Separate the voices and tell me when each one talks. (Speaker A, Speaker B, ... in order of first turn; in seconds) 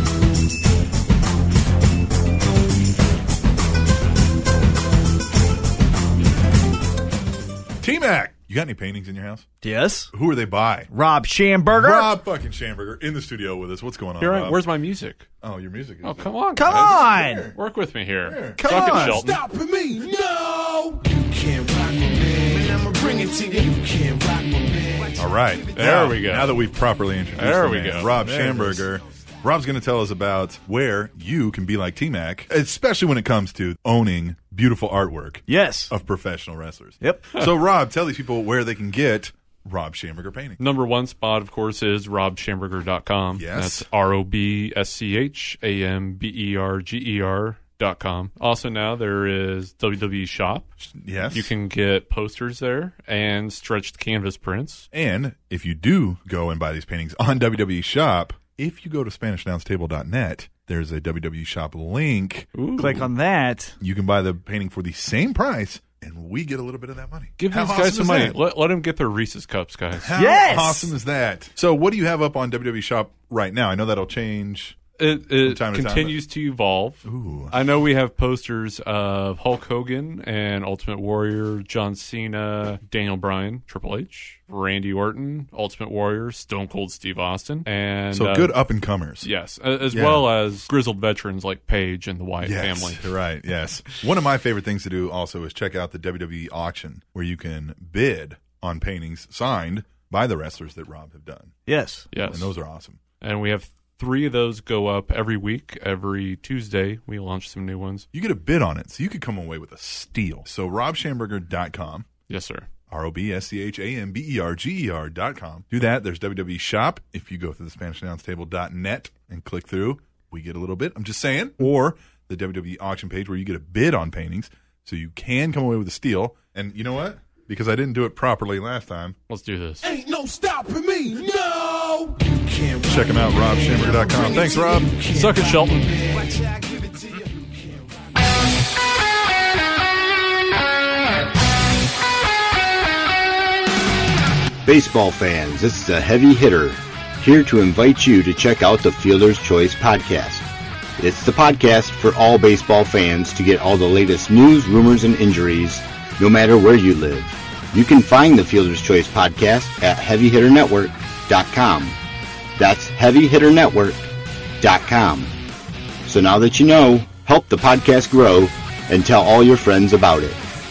Speaker A: 7.8-9.4, 10.1-10.9, 11.7-14.6, 15.4-17.6, 18.2-19.1, 25.1-40.6, 43.4-43.9, 50.8-51.5, 54.9-62.5, 63.8-68.3, 69.9-74.8, 75.4-76.2, 77.0-77.5, 88.1-89.3, 89.9-90.3, 92.4-101.5, 102.2-103.0, 108.1-112.1, 112.9-129.2, 132.8-134.9
Speaker B: 9.6-10.1, 10.9-12.1, 16.5-17.5, 18.6-19.2, 28.1-28.8, 35.5-35.9, 37.0-37.3, 62.8-63.8, 70.1-70.9, 101.7-102.0
Speaker C: 14.2-15.3, 16.0-19.4, 25.7-26.6, 27.4-28.1, 40.6-50.7, 51.3-54.9, 62.5-63.1, 67.4-70.1, 75.0-88.5, 89.2-93.0, 102.1-102.5, 103.2-108.0, 112.3-112.7, 129.3-129.9, 135.0-136.0
Speaker D: 19.2-25.1, 129.8-132.8, 133.9-137.4
Speaker E: 144.6-150.4, 151.0-162.0, 162.6-164.1, 164.6-165.3, 166.1-170.4